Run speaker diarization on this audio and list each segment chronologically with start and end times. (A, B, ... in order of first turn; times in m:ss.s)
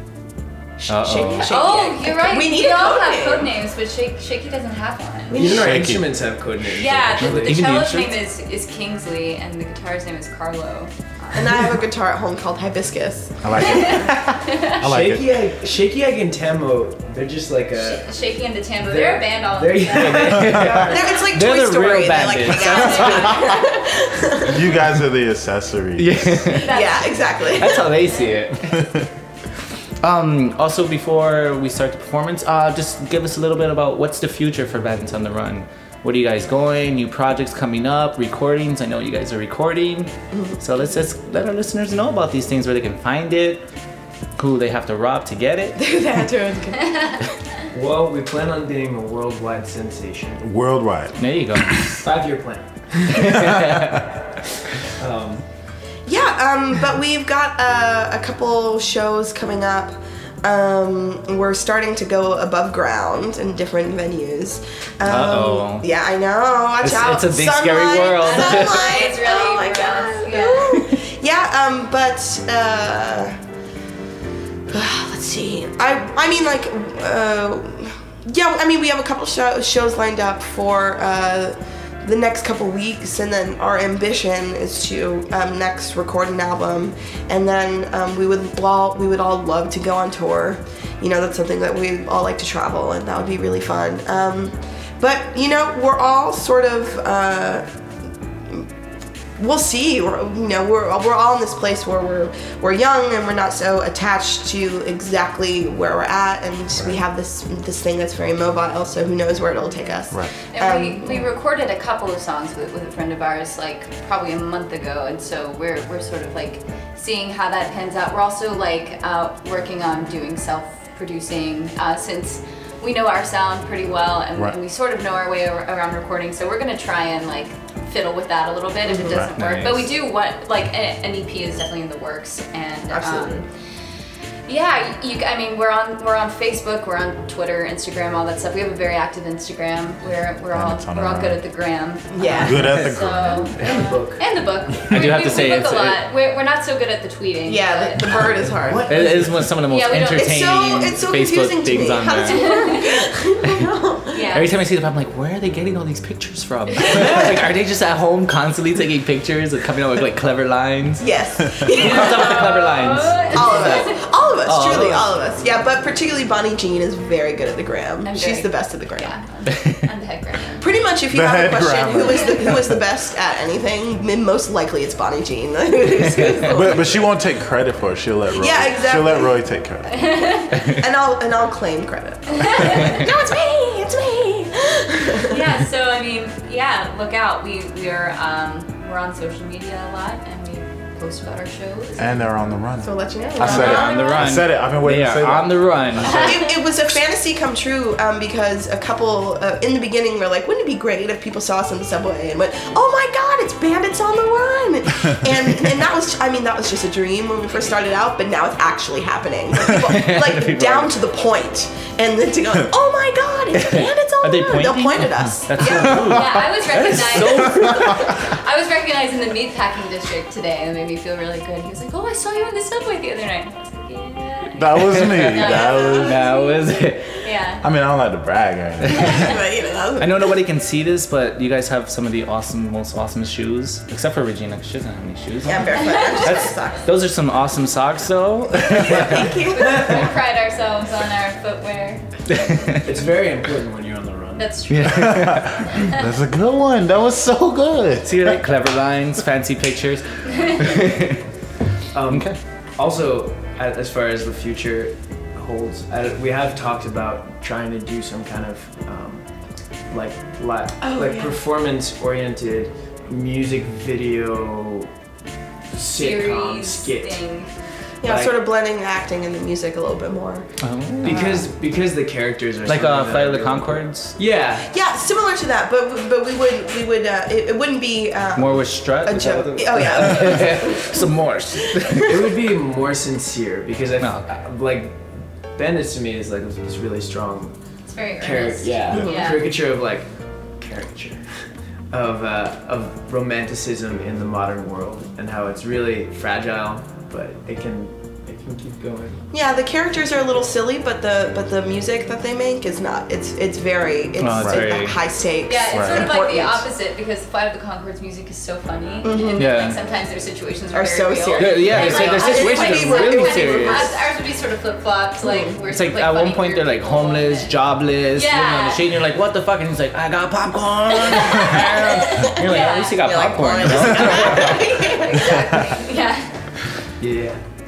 0:00.8-0:03.5 A
0:00.9-0:01.6 B
0:01.4-0:05.5 C
0:05.3-0:05.7 A
0:05.3-0:07.7 D
0:05.5-0:06.2 E
0:06.8-0:11.6 C
0:07.2-0:07.9 E
0:07.6-0:08.1 B
0:11.3-0:14.0 A
0:13.4-0:15.5 E
0:13.6-0:14.8 C
0:14.8-0:18.1 D
0:17.8-0:21.0 C
0:18.8-0:21.0 D
0:19.9-0:23.4 B
0:20.7-0:24.7 A
0:22.6-0:23.5 C
0:24.4-0:26.6 E
0:26.0-0:28.9 B
0:26.5-0:28.4 C
0:26.6-0:27.9 A
0:30.0-0:43.6 B
0:40.3-0:40.6 A
0:44.4-0:45.8 B
0:45.8-0:47.3 A
0:47.7-0:50.4 D
0:50.4-0:51.8 E
0:51.2-0:51.9 B
0:51.9-0:54.0 D
0:53.1-0:54.1 B
0:54.8-0:55.4 D
0:56.0-1:13.4 A
1:05.0-1:05.9 B
1:06.8-1:09.0 B
1:08.2-1:10.8 C
1:14.7-1:37.6 A
1:39.4-1:51.3 A
1:50.5-2:13.4 C
2:08.8-2:09.3 A
2:09.3-2:09.9 B
2:12.9-2:13.4 A
2:14.5-2:28.4 C
2:20.5-2:21.4 E
2:22.1-2:22.7 A
2:22.4-2:23.5 E
2:23.5-2:24.2 D
2:24.9-2:26.0 B
2:27.4-2:28.9 A
2:28.2-2:29.5 D
2:28.9-2:32.7 B
2:29.7-2:30.5 C
2:30.1-2:34.2 A
2:32.3-2:32.8 C
2:34.1-2:34.5 C
2:34.3-2:45.1 B
2:36.8-2:37.1 C
2:41.0-2:49.1 A
2:41.8-2:44.1 C
2:48.0-2:50.6 C
2:50.6-2:57.1 A
2:51.1-2:52.8 E
2:56.5-3:00.3 E
2:58.3-2:59.4 A
3:00.0-3:00.6 C
3:00.5-3:05.4 A
3:02.4-3:03.0 C
3:05.2-3:12.3 C
3:12.0-3:16.2 E
3:12.8-3:14.2 A
3:13.4-3:16.4 B
3:13.4-3:14.2 C
3:16.0-3:36.2 A
3:16.0-3:16.5 C
3:29.7-3:30.9 B
3:33.5-3:38.2 B
3:35.6-3:47.6 C
3:44.5-3:46.1 E
3:44.8-3:47.2 B
3:45.6-3:45.9 A
3:47.6-3:49.4 E
3:48.9-3:49.3 C
3:49.1-3:50.3 A
3:50.0-3:59.3 B
3:55.4-3:56.8 A
3:56.0-3:56.4 C
3:58.6-4:00.1 A
3:59.4-4:02.0 C
4:02.3-4:02.8 B
4:02.8-4:04.5 D
4:04.3-4:06.0 C
4:04.7-4:05.6 B
4:04.9-4:08.4 E
4:08.0-4:11.2 B
4:10.3-4:10.6 C
4:11.9-4:19.2 D
4:12.1-4:12.4 B
4:19.9-4:24.9 D
4:20.8-4:21.4 A
4:25.7-4:27.2 D
4:25.9-4:27.5 C
4:28.0-4:30.5 A
4:28.0-4:28.4 D
4:30.6-4:31.4 B
4:31.0-4:34.7 D
4:31.0-4:31.4 C
4:32.7-4:34.1 B
4:34.7-4:41.1 A
4:38.3-4:42.3 B
4:41.7-4:42.1 A
4:42.0-4:47.5 D
4:44.0-4:44.3 B
4:47.9-4:49.4 C
4:48.2-4:51.2 D
4:49.0-4:49.4 A
4:51.9-4:59.3 D
4:59.3-5:06.6 A
5:04.2-5:05.0 B
5:04.4-5:04.7 E
5:05.4-5:18.8 C
5:05.7-5:06.2 E
5:09.0-5:09.6 A
5:09.4-5:09.8 B
5:10.7-5:13.9 A
5:11.4-5:13.9 B
5:15.2-5:15.5 A
5:15.7-5:25.0 B
5:21.1-5:25.8 A
5:21.3-5:23.0 C
5:24.0-5:26.3 C
5:27.0-5:27.4 D